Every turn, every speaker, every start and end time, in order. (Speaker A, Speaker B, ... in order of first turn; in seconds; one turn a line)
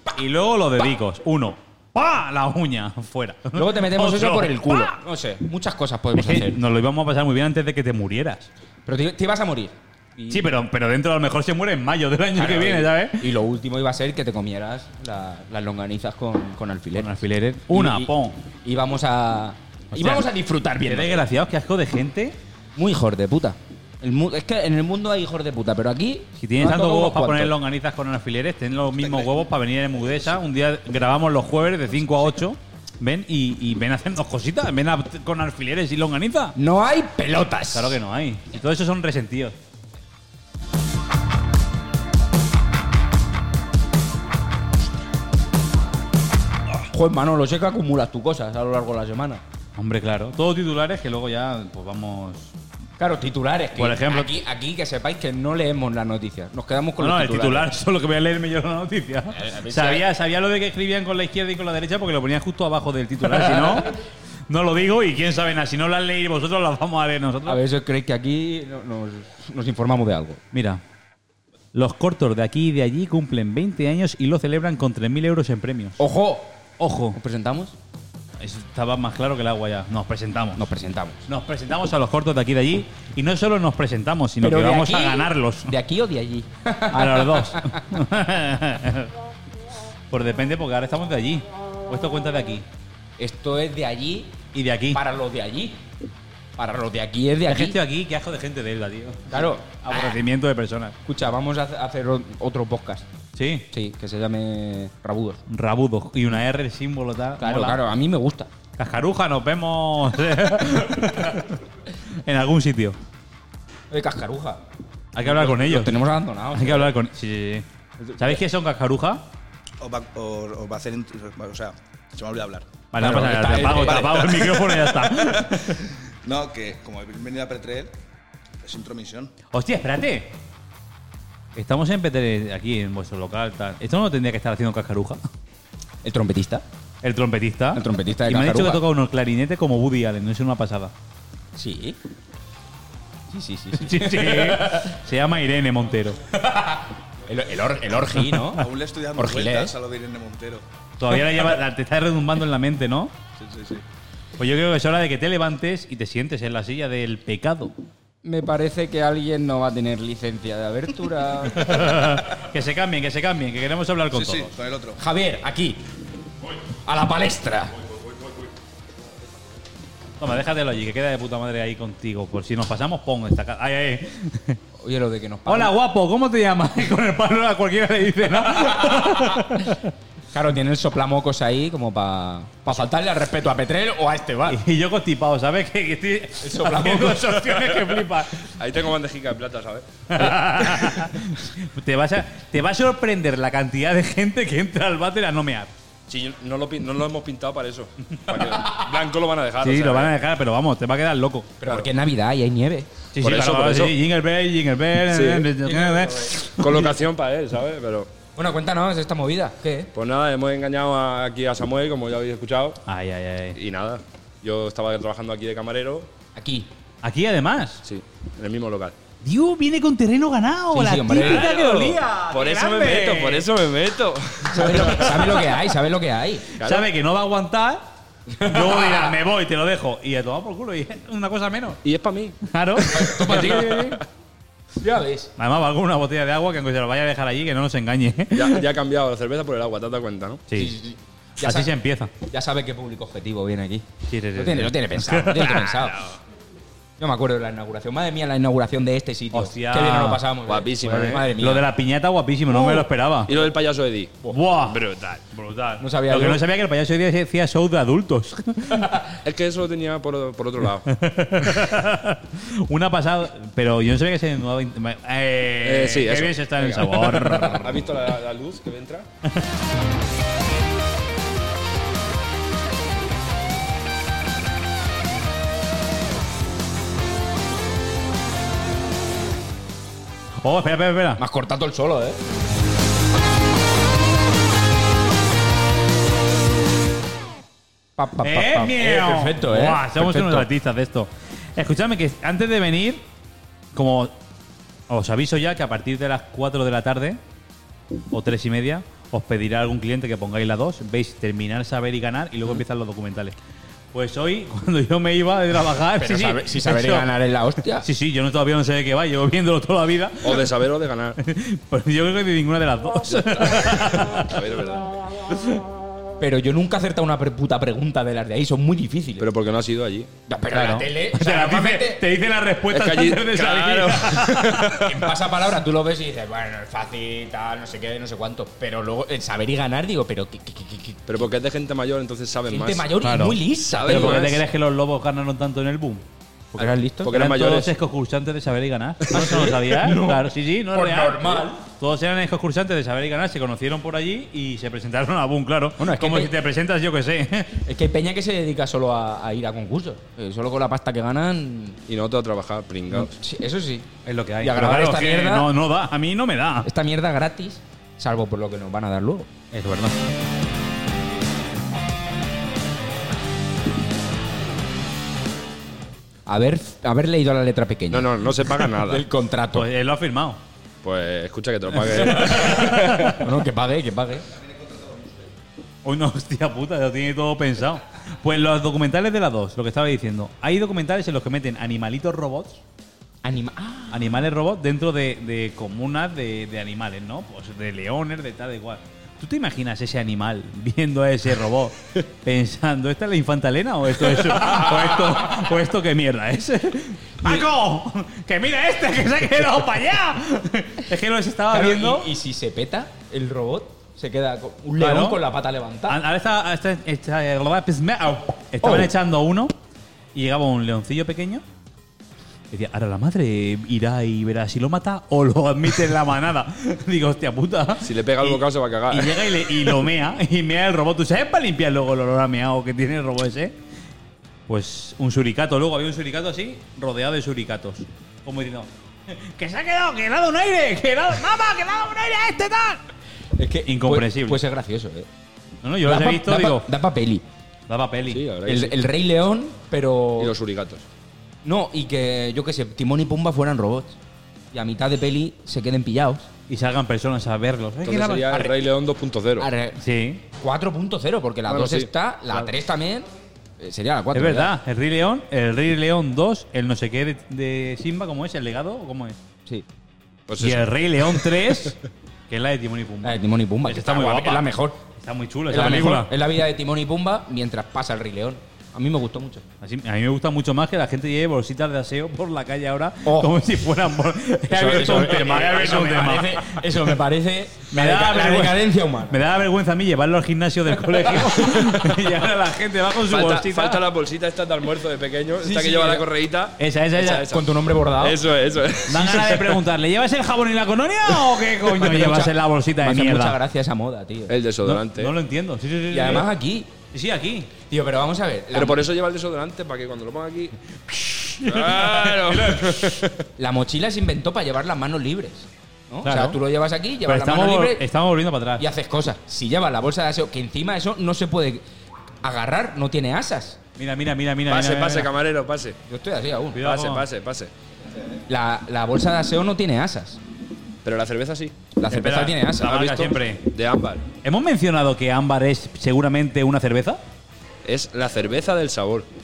Speaker A: 0.1-5.0
Speaker B: 3.5-6.6
Speaker A: 6.1-8.5
Speaker B: 8.8-10.5
Speaker A: 10.3-13.2
Speaker B: 12.4-17.2
Speaker A: 16.9-18.4
Speaker B: 17.7-21.2
Speaker A: 19.9-20.3
Speaker A: 20.8-22.4
Speaker B: 22.8-27.5
Speaker A: 26.4-36.5
Speaker C: 29.0-29.4
Speaker B: 36.5-38.0
Speaker A: 37.7-39.5
Speaker B: 46.7-49.4
Speaker A: 49.8-52.5
Speaker B: 53.0-57.7
Speaker A: 53.8-54.3
Speaker A: 57.0-63.9
Speaker B: 59.3-60.0
Speaker B: 63.2-63.9
Speaker A: 64.5-67.6
Speaker B: 67.5-70.4
Speaker A: 70.5-70.8
Speaker A: 71.7-76.0
Speaker B: 76.0-76.5
Speaker A: 76.8-77.2
Speaker B: 77.1-77.7
Speaker A: 78.4-80.6
Speaker B: 80.5-81.2
Speaker A: 81.3-85.7
Speaker B: 84.4-87.8
Speaker A: 86.9-89.1
Speaker A: 90.1-92.6
Speaker B: 93.2-94.3
Speaker A: 94.5-95.0
Speaker B: 94.9-95.8
Speaker B: 96.6-97.8
Speaker A: 97.5-100.9
Speaker B: 99.3-100.2
Speaker B: 101.0-103.1
Speaker A: 103.3-103.7
Speaker B: 103.7-105.4
Speaker A: 105.5-107.8
Speaker B: 107.4-108.5
Speaker A: 108.8-111.6
Speaker A: 112.2-113.0
Speaker B: 113.9-114.6
Speaker A: 115.1-115.9
Speaker B: 115.2-116.9
Speaker A: 116.5-117.6
Speaker B: 118.0-118.4
Speaker A: 118.2-119.2
Speaker C: 119.8-122.7
Speaker A: 122.9-125.8
Speaker B: 123.0-124.2
Speaker C: 123.7-127.9
Speaker C: 128.6-129.3
Speaker A: 129.5-130.3
Speaker A: 131.6-135.2
Speaker B: 136.0-136.6
Speaker A: 137.0-140.9
Speaker B: 137.7-138.8
Speaker B: 141.6-142.0
Speaker B: 143.3-144.9
Speaker A: 143.8-146.2
Speaker B: 146.3-148.6
Speaker C: 148.5-150.6
Speaker B: 149.2-149.7
Speaker A: 151.0-153.1
Speaker C: 153.4-153.8
Speaker A: 154.4-157.7
Speaker B: 158.2-161.9
Speaker A: 161.6-164.5
Speaker C: 164.1-165.0
Speaker B: 165.0-165.8
Speaker B: 166.7-167.7
Speaker A: 170.2-174.6
Speaker B: 174.8-175.7
Speaker A: 175.5-179.9
Speaker B: 178.5-179.6
Speaker B: 180.3-184.6
Speaker A: 184.5-188.4
Speaker B: 186.4-187.5
Speaker D: 188.5-189.9
Speaker A: 190.1-195.7
Speaker D: 196.1-200.1
Speaker A: 199.6-201.5
Speaker B: 201.6-202.9
Speaker A: 203.1-206.9
Speaker D: 203.2-203.9
Speaker D: 205.1-208.1
Speaker B: 208.3-209.9
Speaker D: 209.9-212.8
Speaker A: 212.8-213.6
Speaker D: 213.5-216.1
Speaker B: 216.3-216.7
Speaker A: 217.0-217.8
Speaker D: 217.8-218.9
Speaker A: 219.2-223.5
Speaker B: 220.7-221.9
Speaker D: 221.2-225.4
Speaker B: 224.5-226.6
Speaker D: 226.6-226.8
Speaker A: 226.6-227.8
Speaker B: 228.3-229.1
Speaker A: 228.4-231.8
Speaker D: 231.8-234.0
Speaker A: 232.4-234.0
Speaker B: 232.9-233.8
Speaker B: 234.8-235.3
Speaker A: 235.4-238.6
Speaker D: 238.3-240.4
Speaker A: 240.5-240.7
Speaker B: 240.5-241.7
Speaker A: 241.4-242.1
Speaker B: 242.3-246.0
Speaker A: 244.1-245.9
Speaker B: 247.0-251.7
Speaker A: 249.3-250.2
Speaker D: 250.4-251.2
Speaker A: 250.8-253.3
Speaker D: 253.2-255.2
Speaker A: 254.3-259.0
Speaker B: 255.8-256.4
Speaker D: 259.2-260.9
Speaker A: 260.9-267.8
Speaker D: 265.6-269.1
Speaker B: 267.2-267.6
Speaker A: 280.4-281.2
Speaker B: 281.2-282.2
Speaker B: 288.0-290.5
Speaker A: 288.2-293.0
Speaker A: 293.7-294.1
Speaker A: 294.9-297.2
Speaker A: 298.1-303.3
Speaker A: 303.9-307.1
Speaker B: 306.0-307.9
Speaker A: 307.8-310.5
Speaker D: 310.2-311.2
Speaker A: 311.2-314.3
Speaker D: 313.1-314.9
Speaker B: 316.2-319.3
Speaker D: 319.2-320.1
Speaker B: 320.3-322.0
Speaker A: 320.5-324.8
Speaker D: 322.7-324.9
Speaker B: 324.8-331.1
Speaker D: 331.1-332.9
Speaker B: 332.5-334.4
Speaker A: 333.0-336.0
Speaker D: 333.6-334.4
Speaker B: 336.6-337.1
Speaker D: 337.0-337.7
Speaker A: 337.1-347.6
Speaker B: 339.1-341.6
Speaker D: 339.1-339.4
Speaker B: 345.8-346.3
Speaker B: 347.6-351.8
Speaker D: 351.9-353.1
Speaker B: 352.9-353.9
Speaker A: 354.0-356.7
Speaker B: 354.4-355.5
Speaker B: 356.6-359.3
Speaker A: 359.5-359.9
Speaker B: 366.3-369.6
Speaker D: 367.9-369.0
Speaker A: 369.5-370.4
Speaker D: 370.8-373.2
Speaker A: 371.9-373.1
Speaker B: 373.1-374.2
Speaker C: 374.5-375.1
Speaker A: 375.8-382.6
Speaker B: 383.2-384.1
Speaker A: 383.9-402.1
Speaker B: 401.5-406.0
Speaker A: 404.8-405.2
Speaker A: 405.9-409.5
Speaker B: 408.6-408.9
Speaker A: 410.1-411.4
Speaker A: 412.5-423.5
Speaker D: 417.8-419.7
Speaker A: 424.5-432.8
Speaker B: 433.4-435.1
Speaker A: 433.6-434.4
Speaker A: 435.6-436.7
Speaker B: 435.8-437.2
Speaker A: 437.7-438.2
Speaker D: 438.1-438.8
Speaker B: 438.4-440.3
Speaker D: 440.2-440.8
Speaker B: 441.4-443.9
Speaker B: 444.5-446.3
Speaker A: 446.5-448.5
Speaker D: 447.8-449.5
Speaker B: 449.4-449.8
Speaker A: 449.8-450.2
Speaker B: 450.4-453.1
Speaker D: 451.5-452.3
Speaker B: 453.6-454.5
Speaker A: 454.1-459.1
Speaker D: 460.3-461.3
Speaker A: 460.4-461.8
Speaker A: 462.3-466.1
Speaker B: 463.0-464.8
Speaker B: 465.5-469.4
Speaker A: 469.6-476.9
Speaker B: 473.0-473.3
Speaker B: 474.5-479.2
Speaker D: 474.7-475.7
Speaker A: 477.7-483.8
Speaker D: 481.5-481.8
Speaker D: 483.1-489.6
Speaker B: 485.4-486.1
Speaker A: 486.6-487.3
Speaker B: 487.0-488.2
Speaker A: 488.9-493.4
Speaker B: 491.8-494.3
Speaker D: 494.3-495.1
Speaker A: 494.6-496.3
Speaker B: 495.9-496.7
Speaker A: 496.9-497.5
Speaker B: 497.7-498.8
Speaker D: 498.5-500.5
Speaker A: 500.9-502.8
Speaker D: 501.4-503.1
Speaker B: 503.4-507.8
Speaker A: 506.0-506.4
Speaker A: 507.1-508.6
Speaker B: 508.6-511.6
Speaker B: 512.2-513.6
Speaker A: 513.8-515.1
Speaker D: 514.5-515.8
Speaker B: 515.9-516.6
Speaker A: 516.5-517.0
Speaker D: 516.6-517.5
Speaker B: 518.3-520.2
Speaker D: 520.8-521.5
Speaker B: 521.8-523.1
Speaker A: 521.9-523.4
Speaker D: 523.5-524.0
Speaker A: 524.2-527.0
Speaker D: 527.6-529.1